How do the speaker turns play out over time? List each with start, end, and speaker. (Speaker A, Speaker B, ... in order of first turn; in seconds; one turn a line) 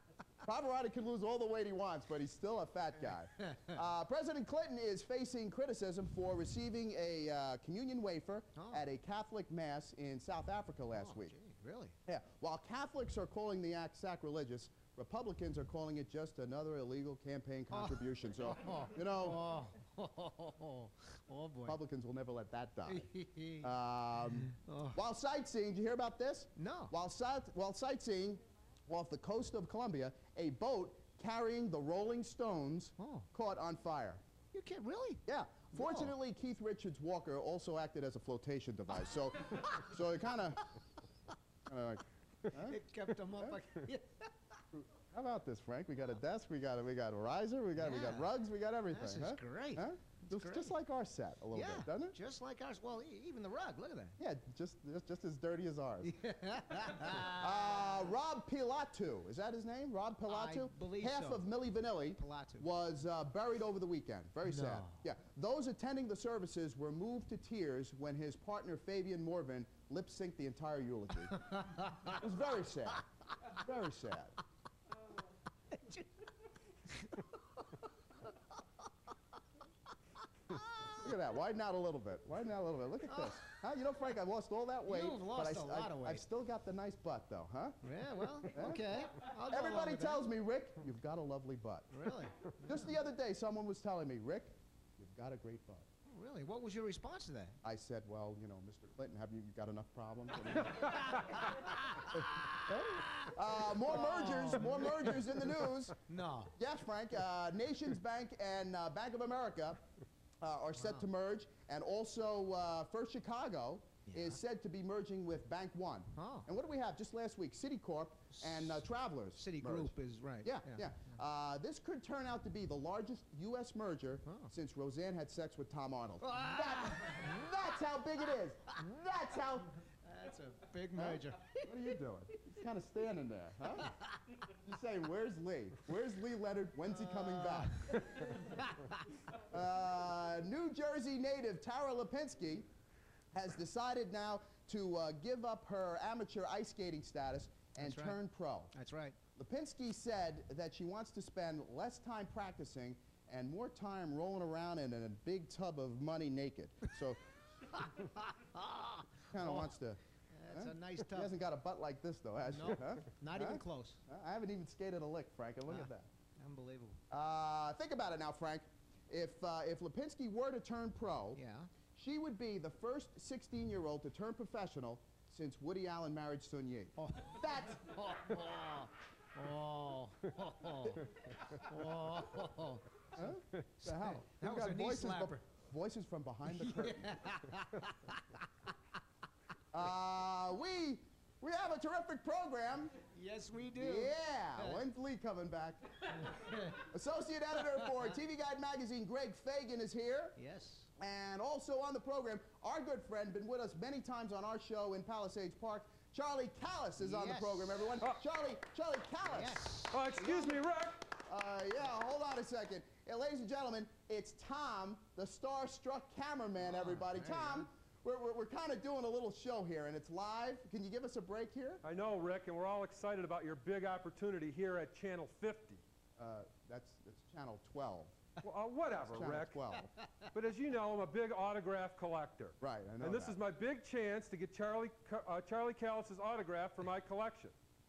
Speaker A: 0.4-11.3
Speaker B: 8.6-8.9
Speaker B: 10.9-12.0
Speaker A: 12.1-19.4
Speaker B: 17.7-21.8
Speaker A: 21.7-23.1
Speaker B: 22.9-23.7
Speaker A: 23.6-34.2
Speaker B: 24.4-25.0
Speaker B: 26.6-26.9
Speaker B: 33.0-33.3
Speaker B: 34.5-35.2
Speaker A: 35.3-40.6
Speaker B: 35.8-36.1
Speaker B: 39.5-39.8
Speaker A: 41.7-42.8
Speaker B: 42.6-44.3
Speaker A: 43.4-43.6
Speaker A: 44.7-52.2
Speaker B: 47.8-48.3
Speaker B: 48.9-50.7
Speaker B: 51.5-54.2
Speaker A: 54.2-56.2
Speaker B: 56.1-57.9
Speaker A: 56.8-74.4
Speaker B: 60.3-61.5
Speaker B: 62.1-62.7
Speaker B: 64.5-65.0
Speaker B: 71.7-72.1
Speaker B: 75.8-76.1
Speaker B: 77.0-77.3
Speaker B: 80.5-80.9
Speaker A: 81.0-87.8
Speaker B: 83.1-83.4
Speaker B: 84.9-86.2
Speaker B: 87.8-90.2
Speaker A: 88.5-91.9
Speaker B: 91.9-92.9
Speaker A: 92.5-95.9
Speaker B: 96.1-97.6
Speaker A: 97.6-106.0
Speaker B: 100.9-103.3
Speaker B: 103.9-105.0
Speaker B: 106.1-106.5
Speaker A: 106.5-109.8
Speaker A: 110.4-119.9
Speaker B: 114.1-114.4
Speaker B: 116.2-116.5
Speaker B: 118.4-118.8
Speaker B: 119.4-121.1
Speaker A: 120.4-129.7
Speaker B: 124.3-124.5
Speaker B: 126.2-127.5
Speaker B: 130.0-131.7
Speaker A: 131.0-133.9
Speaker A: 134.5-138.0
Speaker B: 137.4-138.9
Speaker A: 139.3-142.7
Speaker A: 143.3-148.7
Speaker B: 147.8-148.2
Speaker B: 148.7-149.2
Speaker A: 149.4-157.2
Speaker B: 157.8-159.7
Speaker A: 159.3-160.0
Speaker B: 160.3-161.3
Speaker A: 160.5-166.1
Speaker B: 162.5-164.0
Speaker B: 165.7-167.0
Speaker A: 167.1-171.4
Speaker B: 171.3-171.7
Speaker A: 171.9-178.0
Speaker B: 177.0-185.4
Speaker A: 183.2-187.2
Speaker B: 186.5-188.4
Speaker A: 189.7-192.9
Speaker B: 193.1-194.8
Speaker A: 193.8-200.4
Speaker B: 200.4-200.9
Speaker A: 201.0-210.6
Speaker B: 207.0-207.8
Speaker B: 209.3-210.0
Speaker C: 209.9-211.1
Speaker A: 211.2-221.8
Speaker B: 216.6-217.7
Speaker C: 221.8-225.8
Speaker A: 226.2-228.2
Speaker C: 228.4-229.6
Speaker A: 229.0-229.9
Speaker C: 230.3-237.5
Speaker A: 232.6-233.4